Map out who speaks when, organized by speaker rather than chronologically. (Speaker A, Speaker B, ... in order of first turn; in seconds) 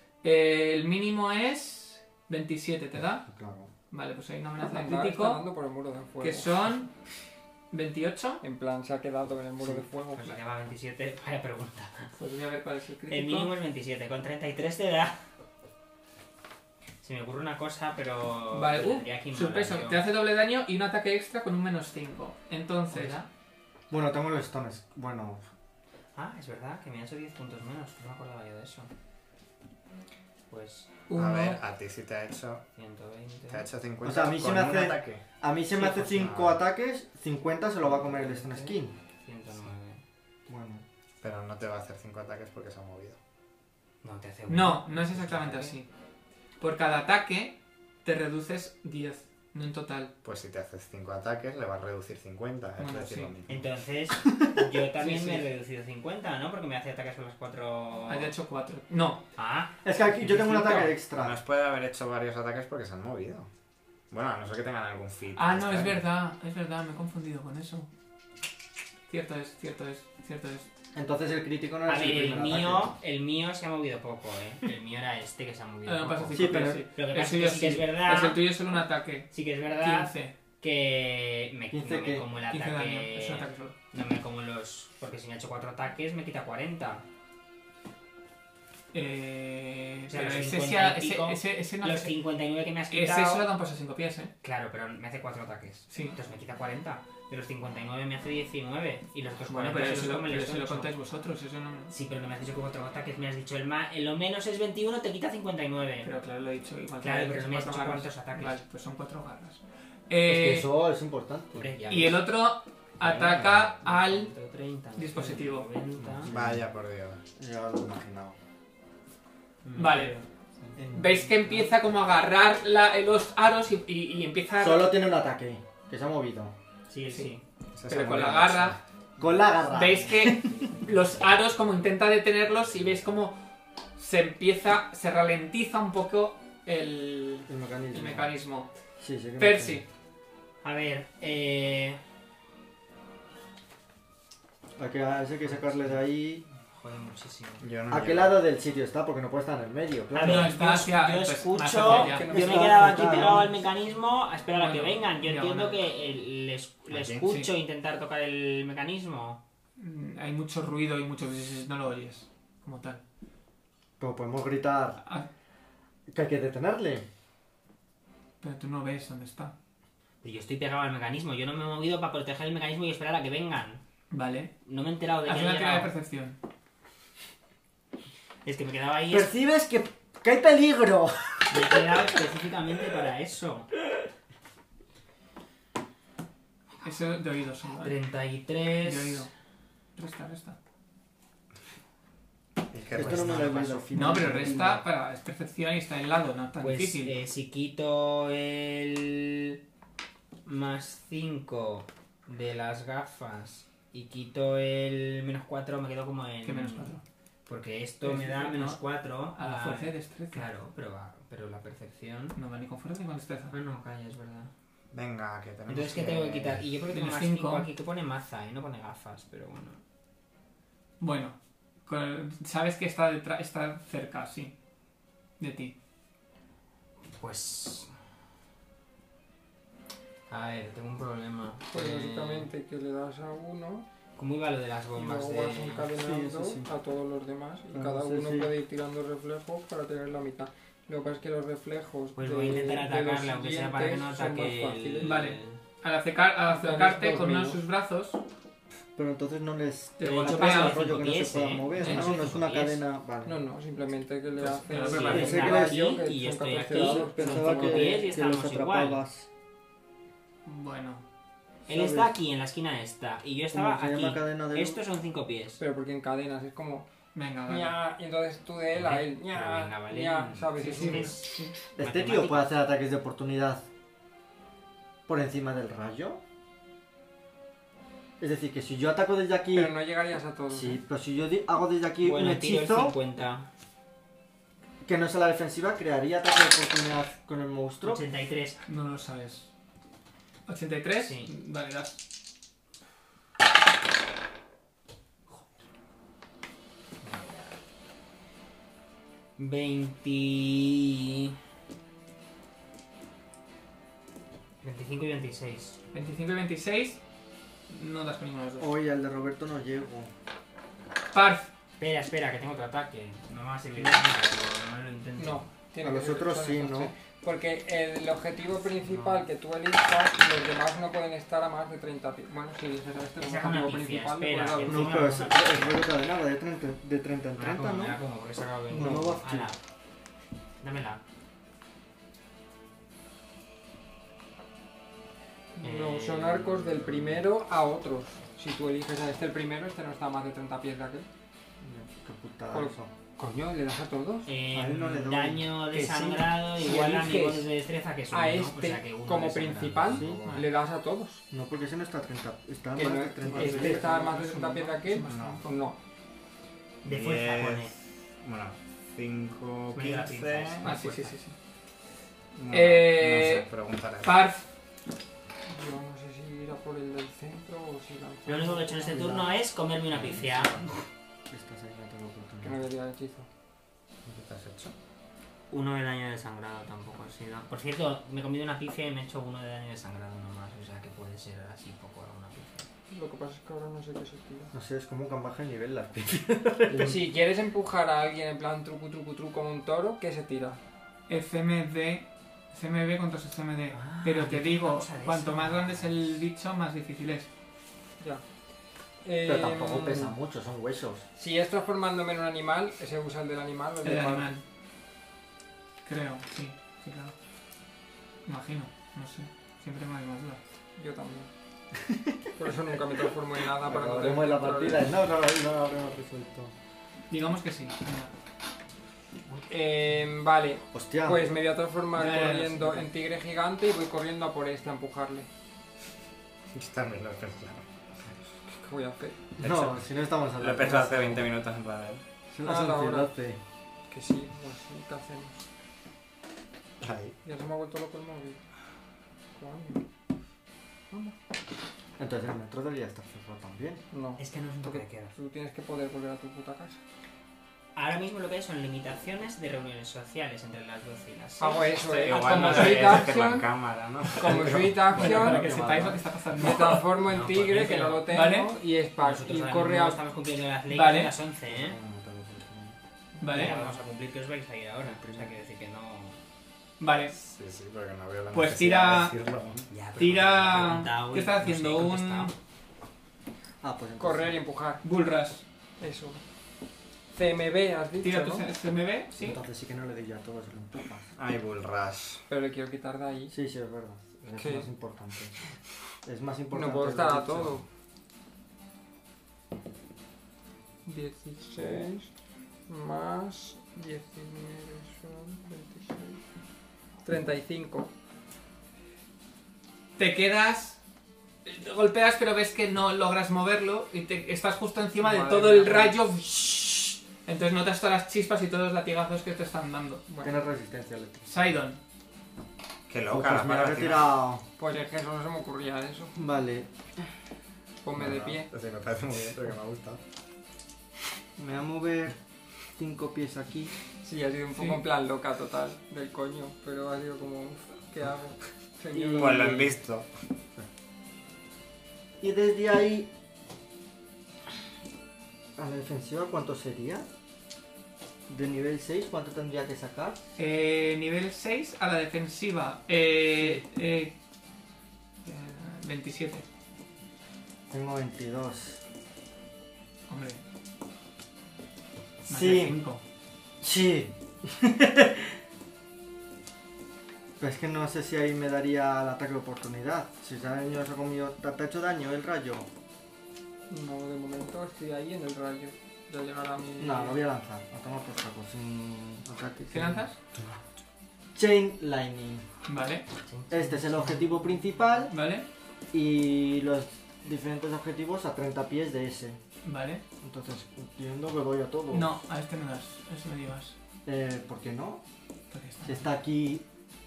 Speaker A: 0.2-3.2, 3.9-5.4, 6.2-6.9, 7.7-8.4, 12.2-13.5, 18.5-23.2, 31.1-31.6, 44.5-45.9, 46.6-50.1, 52.8-53.3, 55.0-55.4, 58.1-59.2, 60.0-61.0, 65.3-67.9, 69.1-70.7, 75.8-80.3, 82.5-83.7, 88.9-92.2, 92.9-94.3, 95.9-96.2, 99.5-101.9, 106.0-110.7, 111.9-114.3, 115.0-115.7, 119.8-120.2, 120.9-124.9, 127.8-128.8, 129.7-133.4, 134.0-138.7, 139.4-139.9, 150.2-152.3, 154.5-155.8, 159.8-163.0, 165.0-165.3, 168.4-169.5, 174.1-174.5, 175.2-176.4, 186.8-187.9, 188.8-189.3, 189.9-190.6, 193.9-197.1, 206.4-207.0, 208.0-208.8, 209.3-210.5, 212.3-213.5, 216.9-217.7, 221.0-224.5, 225.4-225.7, 245.0-248.2, 250.0-250.8, 251.8-252.2, 254.4-255.5, 260.4-261.0, 267.1-267.8, 270.6-271.5, 288.6-289.5, 290.5-292.0, 305.9-307.0, 307.7-308.7, 311.1-311.5, 353.2-355.5, 360.6-361.4, 362.5-363.5, 364.0-364.5, 391.1-397.3, 403.8-404.4, 405.8-407.1, 408.2-410.4, 417.1-418.1, 421.9-422.9, 452.3-452.8, 454.9-456.9, 458.1-458.5, 460.7-461.1, 463.2-463.6, 466.8-467.1, 468.3-469.1, 470.0-472.3, 474.8-475.4, 478.0-479.4, 500.0-500.8, 501.4-510.0, 511.3-511.8, 524.5-524.8, 540.4-544.1, 545.2-546.4, 550.1-550.4, 552.3-553.0, 569.7-570.1, 572.7-573.0, 575.1-575.5, 579.6-580.0, 581.9-583.7, 585.5-586.0
Speaker B: 3.2-3.7, 23.9-25.4, 34.0-38.9, 40.5-40.8, 59.8-61.4, 70.9-72.9, 76.3-76.8, 81.7-82.2, 110.2-111.7, 116.2-116.7, 117.3-118.4, 120.8-121.3, 124.6-126.5, 129.2-130.4, 137.5-138.3, 139.0-139.8, 144.8-146.4, 147.9-150.5, 152.2-153.5, 164.0-165.0, 166.1-167.0, 179.1-181.8, 192.9-194.8, 235.9-236.7, 237.7-238.5, 248.9-253.4, 255.0-256.0, 256.7-259.3, 261.7-262.1, 263.5-264.8, 271.8-273.6, 275.1-276.2, 278.2-279.7, 280.5-282.9, 284.8-288.0, 308.6-310.1, 315.8-316.9, 324.6-328.0, 328.7-329.5, 341.6-342.9, 344.5-346.4, 349.9-350.3, 351.3-353.9, 368.9-369.3, 371.3-372.6, 384.5-387.1, 399.2-401.0, 413.6-416.5, 420.7-421.3, 429.4-431.3, 432.3-433.4, 442.0-443.8, 454.4-456.0, 461.5-462.8, 464.8-465.3, 473.6-474.4, 479.2-481.0, 483.3-485.4, 486.0-487.6, 510.2-511.3, 513.1-514.4, 516.1-517.1, 521.4-522.2, 522.8-523.7, 528.9-529.7, 532.2-533.1, 535.5-537.1, 538.3-540.2, 547.7-548.8, 552.2-552.8, 553.6-555.4, 557.4-562.7, 566.8-570.1, 571.3-572.5, 573.5-575.1, 575.9-579.4, 580.2-582.1, 584.0-585.0, 585.8-586.6
Speaker C: 4.7-6.5, 8.4-10.4, 151.8-153.2, 231.7-233.8, 234.9-245.2, 246.5-247.6, 253.2-258.1, 265.6-266.9, 267.4-271.2, 279.5-280.8, 315.2-325.2, 335.6-341.1, 342.5-344.3, 346.6-347.5, 348.1-351.2, 352.8-355.8, 365.4-369.1, 372.4-373.3, 382.9-384.5, 386.8-390.6, 399.0-400.1, 401.1-404.3, 410.8-411.3, 412.4-414.8, 419.5-425.3, 428.5-429.3, 432.4-433.1, 433.9-435.4, 437.2-438.4, 439.3-439.8, 440.9-441.1, 443.9-446.8, 451.4-453.5, 454.1-455.5, 456.4-460.0, 474.0-474.8, 475.8-476.2, 477.1-478.5, 482.3-483.3, 484.4-484.7, 486.5-487.6, 490.8-492.1, 492.7-496.2, 497.0-497.9, 505.0-505.9, 510.1-510.3, 514.6-516.1, 517.8-518.5, 524.0-529.7, 563.7-567.2
Speaker D: 10.1-12.1, 13.1-15.2, 17.0-20.0, 22.9-23.3, 26.1-28.9, 30.5-30.9, 32.8-33.7, 37.9-40.0, 44.0-45.8, 53.5-58.3, 59.4-59.7, 71.8-78.4, 79.3-87.0, 90.1-93.5, 94.4-100.9, 101.9-106.1, 107.0-108.6, 111.5-112.2, 113.8-116.3, 119.6-120.8, 126.9-127.4, 130.3-130.9, 140.6-142.0, 145.4-146.0, 146.7-147.6, 150.1-159.4, 170.2-173.8, 174.6-175.9, 178.4-179.3, 181.5-183.7, 187.8-189.3, 192.9-194.2, 196.6-199.6, 200.4-206.9, 207.4-212.4, 213.5-214.5, 215.7-219.8, 227.1-227.9, 230.3-232.5, 234.2-235.9, 242.2-245.6, 250.0-252.8, 254.7-259.0, 261.7-265.6, 268.7-272.6, 282.0-283.5, 287.8-288.6, 291.0-291.3, 297.0-297.5, 299.4-301.3, 304.6-305.8, 311.8-315.5, 323.2-325.9, 327.4-329.6, 330.6-331.0, 335.6-337.2, 344.2-350.2, 356.8-357.7, 359.7-361.1, 368.2-370.7, 375.5-382.7, 393.7-396.2, 444.2-445.1, 447.7-453.0, 457.0-458.1, 459.0-461.8, 463.3-466.2, 469.7-472.3, 573.2-574.5
Speaker E: 31.1-32.6, 33.5-35.2, 35.9-36.6, 41.2-43.2, 50.2-53.7, 61.1-63.5, 64.1-66.0, 113.0-113.6, 116.2-117.2, 127.8-128.8, 147.6-148.4, 156.9-157.3, 192.7-193.8, 214.9-216.6, 355.1-355.4, 356.9-360.7, 362.3-364.1, 374.0-374.7, 426.5-428.1, 429.4-429.9, 430.4-432.0, 436.8-437.1, 451.8-454.9, 467.1-469.7, 481.1-482.2, 512.9-514.1, 518.0-520.0, 529.1-530.1